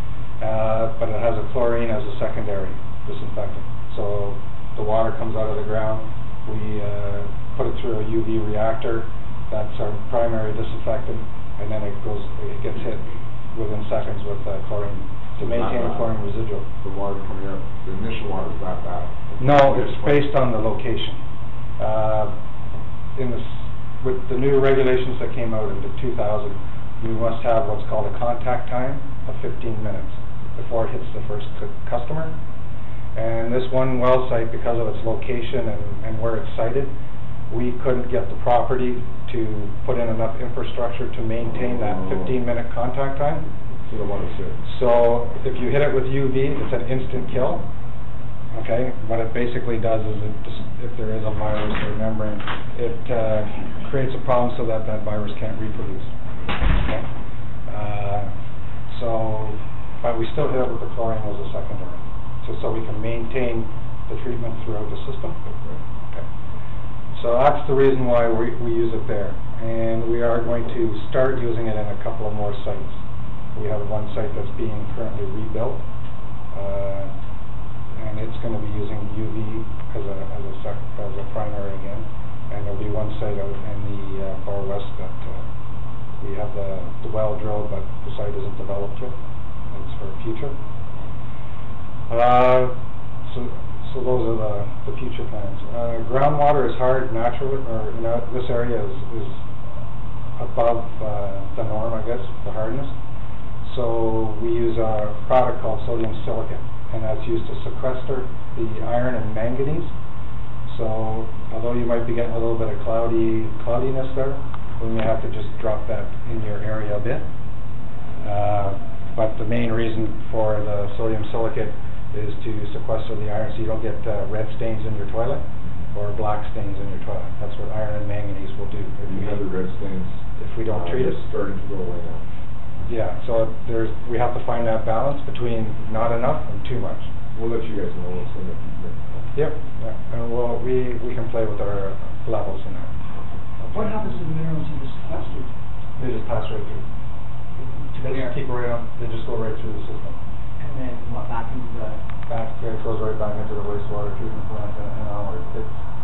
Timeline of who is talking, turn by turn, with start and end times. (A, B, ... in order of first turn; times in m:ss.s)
0:00.4-0:16.7 A
0:15.4-0:16.2 B
0:16.8-0:20.3 B
0:19.4-0:21.2 A
0:21.8-0:22.3 A
0:23.2-0:32.4 A
0:33.1-0:36.9 A
0:37.5-0:43.5 A
0:41.4-0:42.3 B
0:43.8-0:44.7 B
0:44.6-0:47.6 A
0:48.5-0:56.1 A
0:56.7-0:57.0 A
0:57.7-0:58.3 A
0:58.9-1:05.4 A
1:07.1-1:13.0 A
1:13.5-1:15.8 A
1:16.5-1:17.1 A
1:18.0-1:25.4 A
1:26.2-1:29.1 A
1:29.7-1:30.6 A
1:32.1-1:39.4 A
1:40.4-1:42.9 A
1:43.6-1:49.9 A
1:50.6-1:57.2 A
1:58.2-2:09.4 A
2:09.0-2:12.2 B
2:10.4-2:11.2 A
2:12.9-2:17.1 A
2:17.3-2:19.2 B
2:19.3-2:22.9 A
2:23.6-2:24.1 A
2:23.6-2:25.5 C
2:26.0-2:26.8 A
2:27.6-2:28.4 C
2:27.9-2:30.2 A
2:30.6-2:32.0 C
2:32.3-2:35.8 A